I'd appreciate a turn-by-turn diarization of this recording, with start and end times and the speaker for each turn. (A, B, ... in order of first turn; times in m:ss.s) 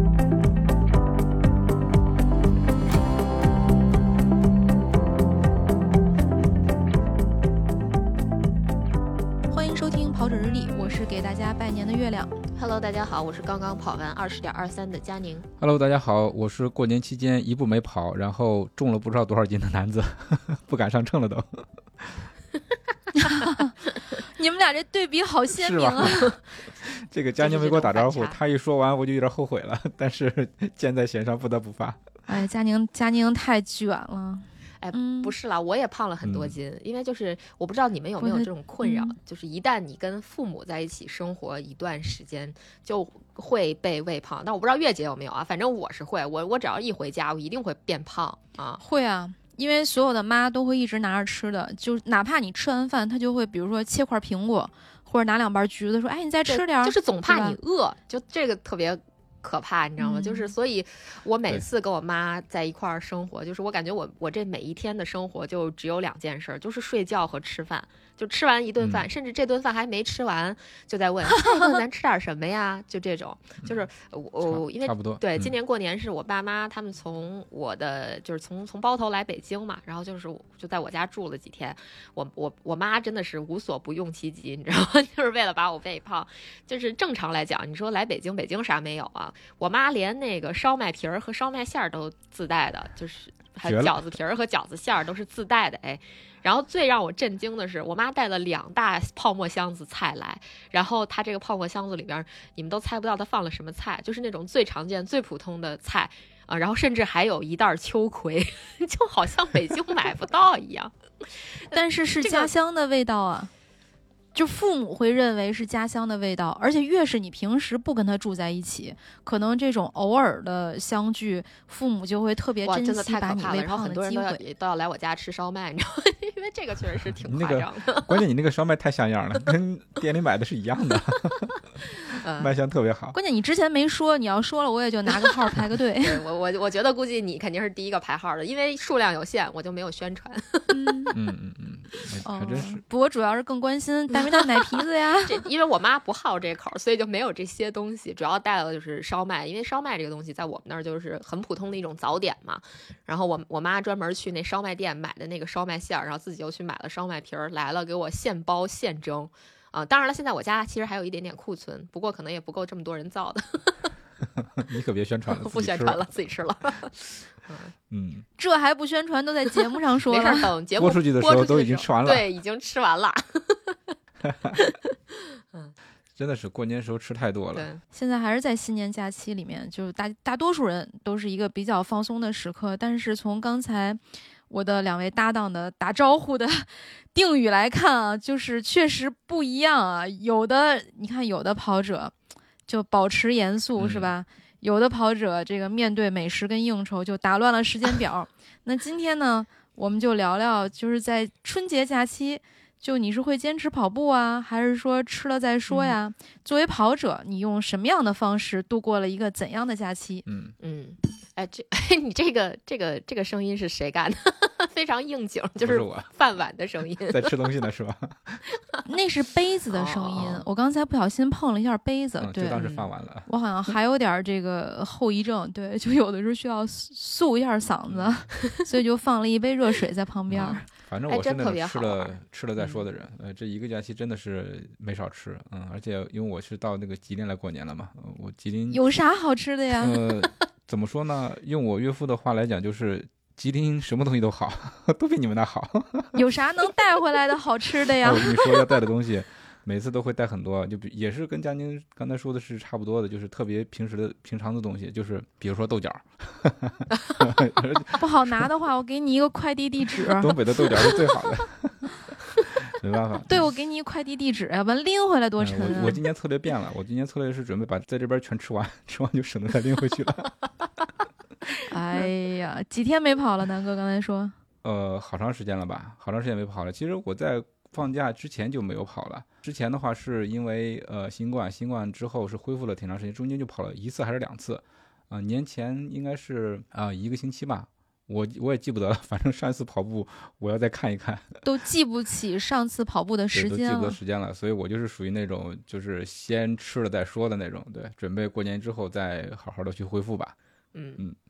0:09.5-0:12.4 A
0:12.6-0:15.5 B
0:15.6-0:22.3 C
0:23.2-0:26.4 A
0:25.5-0:26.4 C
0:27.0-0:32.0 C
0:27.4-0:28.4 B
0:32.3-0:35.3 A
0:34.8-0:48.8 B
0:36.2-0:36.6 C
0:38.2-0:39.2 A
0:48.8-0:57.6 A
0:56.4-1:50.9 B
1:00.0-1:00.5 A
1:08.8-1:09.1 C
1:14.4-1:15.6 C
1:33.7-1:34.1 C
1:51.7-1:53.5 A
1:52.2-1:52.5 B
1:54.3-2:04.4 A
2:02.6-2:08.2 B
2:07.1-2:11.6 C
2:12.0-2:12.5 B
2:12.4-2:13.2 C
2:13.1-2:16.2 A
2:16.0-2:21.2 B
2:20.7-2:21.2 A
2:21.1-2:22.8 C
2:22.3-2:25.4 A
2:24.1-2:43.9 B
2:44.6-2:46.0 C
2:45.3-2:47.7 B
2:47.9-2:48.2 C
2:48.4-2:50.5 A
2:50.1-2:53.8 B
2:50.8-2:52.3 C
2:54.2-2:54.6 C
2:54.5-2:54.9 B
2:56.2-2:57.7 C
2:57.5-2:57.8 B
2:57.9-3:12.1 A
3:12.7-3:30.3 A
3:13.8-3:14.1 C
3:25.7-3:26.0 B
3:30.3-3:30.6 C
3:30.6-3:37.4 B
3:35.6-3:36.1 C
3:37.1-3:38.4 C
3:38.9-3:42.6 A
3:39.7-3:40.4 B
3:42.2-3:43.3 C
3:42.6-3:42.9 B
3:43.3-3:50.7 A
3:47.9-3:48.2 C
3:50.3-3:58.8 C
3:51.1-3:52.8 B
3:58.7-4:00.0 A
3:59.8-4:06.2 C
4:06.1-4:08.6 A
4:08.0-4:18.5 C
4:18.0-4:20.4 A
4:20.0-4:21.8 C
4:22.6-4:23.5 C
4:23.3-4:26.0 A
4:25.4-4:30.3 C
4:31.7-4:34.3 A
4:34.6-4:51.4 C
4:51.4-4:54.0 A
4:53.3-5:00.4 C
5:00.7-5:01.0 B